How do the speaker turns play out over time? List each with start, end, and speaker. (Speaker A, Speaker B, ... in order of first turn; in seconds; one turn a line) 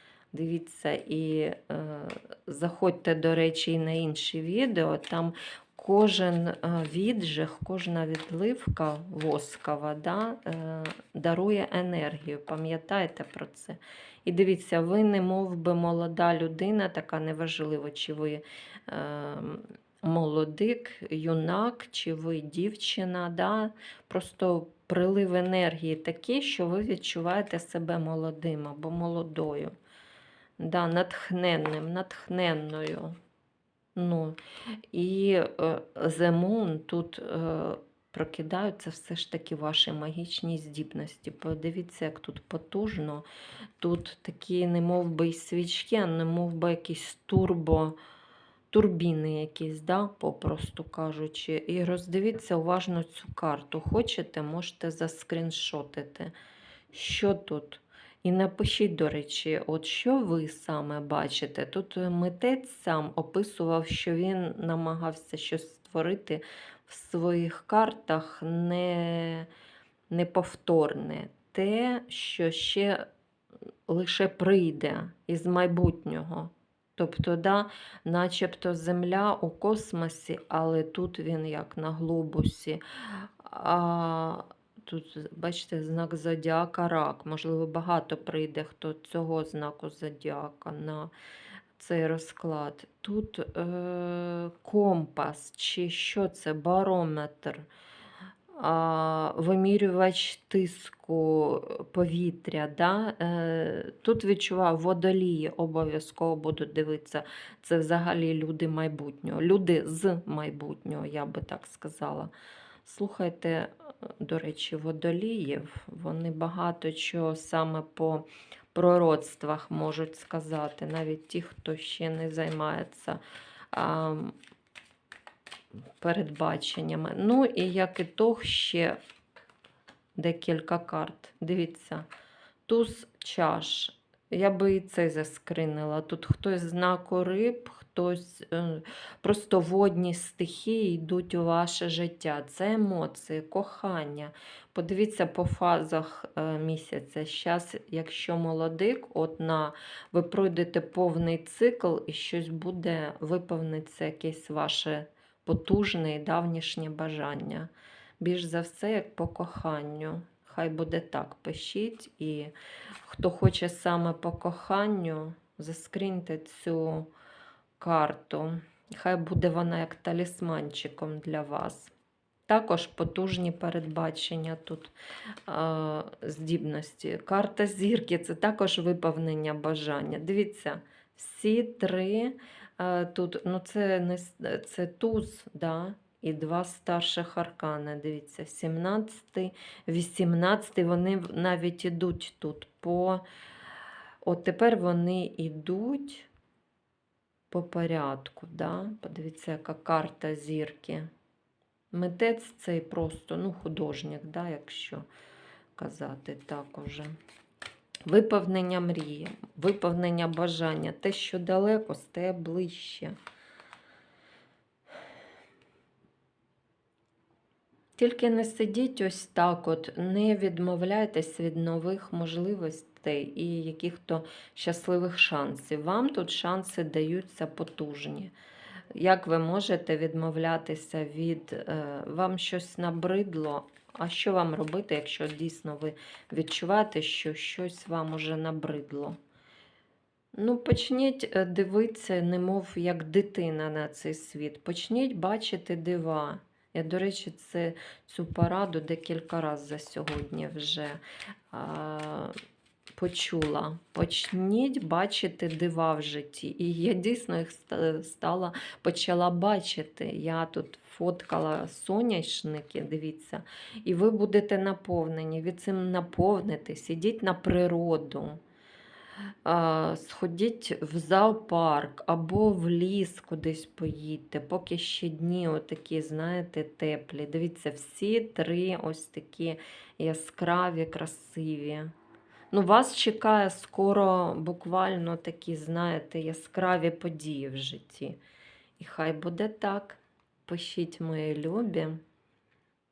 Speaker A: 0.3-29.8
Speaker A: 30.6-33.2
Speaker A: 34.0-34.4
Speaker A: 34.9-43.3
Speaker A: 43.8-48.0
Speaker A: 48.7-56.3
Speaker A: 56.9-69.5
Speaker A: 70.1-73.1
Speaker A: 73.9-91.1
Speaker A: 91.8-97.7
Speaker A: 98.5-112.3
Speaker A: 112.8-123.2
Speaker A: 123.7-124.4
Speaker A: 126.0-129.0
Speaker A: 130.2-132.1
Speaker A: 132.7-162.5
Speaker A: 163.0-167.1
Speaker A: 167.8-171.9
Speaker A: 172.5-174.9
Speaker A: 175.5-193.2
Speaker A: 194.2-196.3
Speaker A: 197.5-201.1
Speaker A: 201.9-205.1
Speaker A: 205.8-207.2
Speaker A: 208.1-213.2
Speaker A: 218.0-228.3
Speaker A: 228.9-239.2
Speaker A: 240.4-252.3
Speaker A: 253.0-268.4
Speaker A: 269.4-281.9
Speaker A: 282.5-288.2
Speaker A: 288.8-292.0